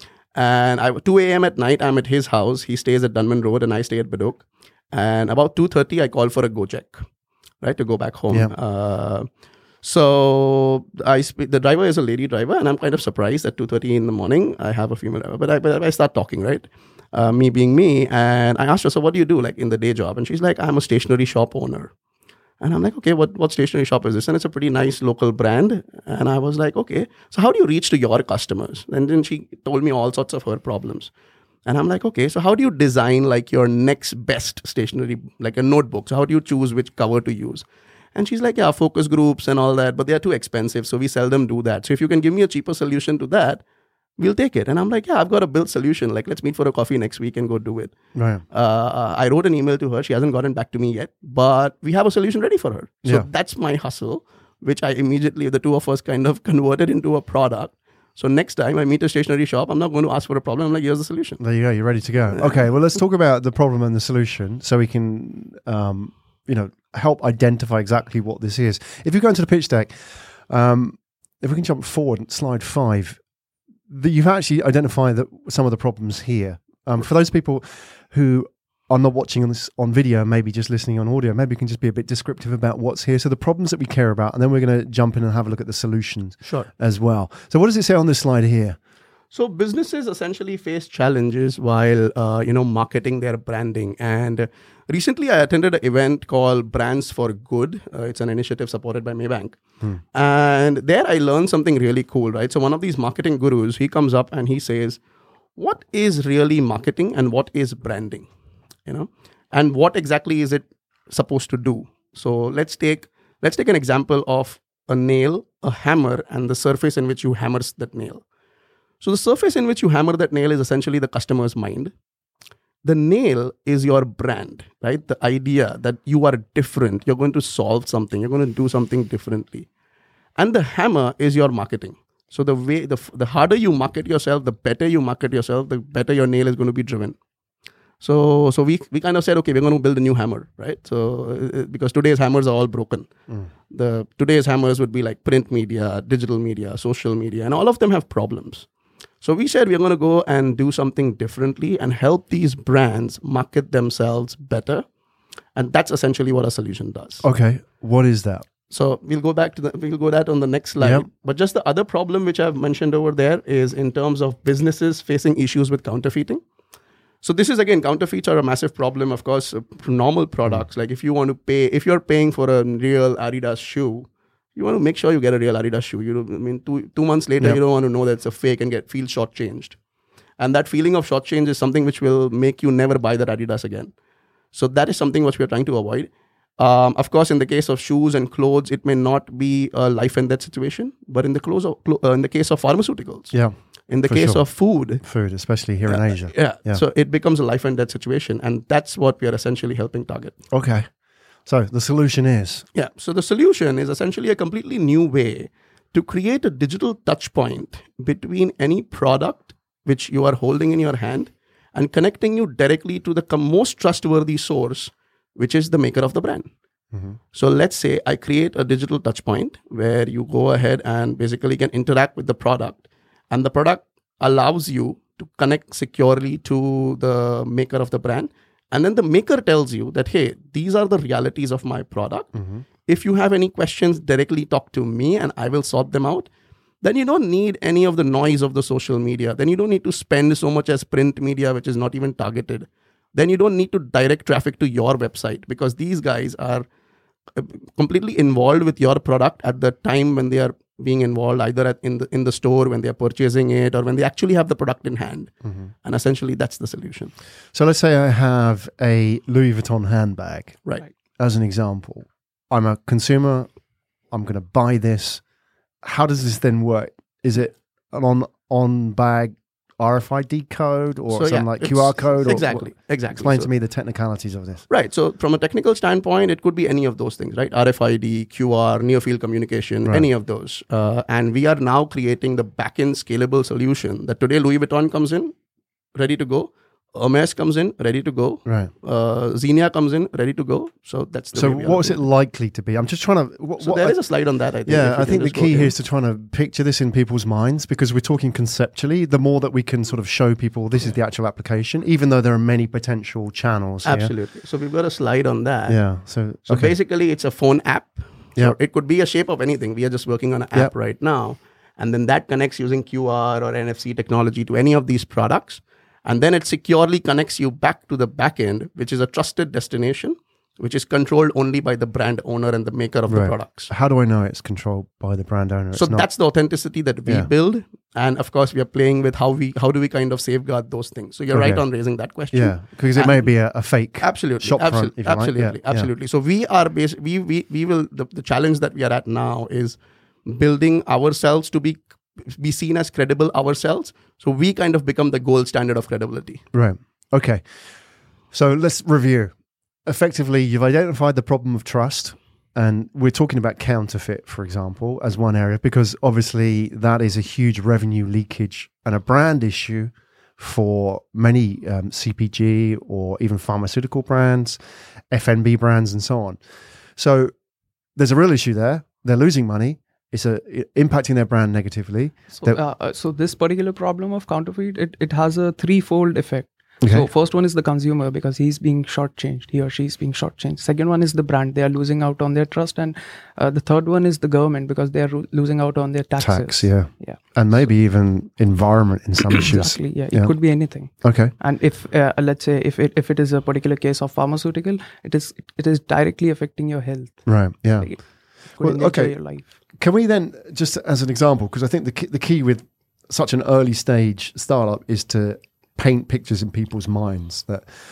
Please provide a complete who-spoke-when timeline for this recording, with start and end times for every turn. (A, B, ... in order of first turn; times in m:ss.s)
0:00.3-0:07.0 A
0:07.6-0:09.3 A
0:09.8-0:21.9 A
0:22.6-0:31.1 A
0:31.6-0:43.6 A
0:44.2-0:48.0 A
0:48.1-0:48.4 B
0:48.5-1:01.4 A
1:01.4-1:13.2 B
1:13.9-1:28.8 B
1:26.4-1:26.7 A
1:29.3-1:39.6 A
1:40.1-1:45.0 A
1:45.6-1:48.3 A
1:48.9-1:58.2 A
1:59.0-2:01.9 A
2:02.8-2:09.7 A
2:10.4-2:17.2 A
2:18.0-2:23.1 A
2:23.7-2:28.7 A
2:29.2-2:34.9 A
2:35.5-2:37.2 A
2:37.2-2:38.4 B
2:38.7-2:46.4 A
2:40.8-2:41.1 B
2:47.2-2:59.8 A
3:00.4-3:03.9 A
3:04.5-3:13.4 A
3:13.9-3:15.0 A
3:14.1-3:14.4 B
3:15.0-3:16.8 B
3:15.9-3:20.4 A
3:20.5-3:20.9 B
3:21.5-3:22.6 B
3:22.8-3:36.5 A
3:37.3-3:52.3 A
3:52.3-3:52.6 B
3:52.9-3:56.3 A
3:56.8-4:06.6 A
4:07.4-4:17.1 A
4:17.5-4:20.6 B
4:21.2-4:23.5 B
4:24.1-4:25.2 B
4:25.8-4:34.6 B
4:31.1-4:33.5 A
4:34.7-4:45.4 A
4:46.0-4:52.0 A
4:48.5-4:48.7 B
4:51.3-4:54.0 B
4:53.6-4:55.7 A
4:54.6-5:04.1 B
5:03.8-5:05.8 A
5:05.7-5:06.8 B
5:06.4-5:23.7 A
5:23.1-5:26.1 B
5:25.7-5:33.3 A
5:31.3-5:31.6 B
5:32.3-5:35.9 B
5:34.0-5:46.4 A
5:46.5-5:47.5 B
5:48.3-5:49.3 B
5:49.8-6:04.6 B
6:05.1-6:06.4 B
6:07.0-6:07.3 B
6:08.0-6:12.6 B
6:12.4-6:27.2 C
6:16.8-6:17.1 B
6:26.2-6:31.3 B
6:29.4-6:39.4 C
6:37.2-6:47.7 B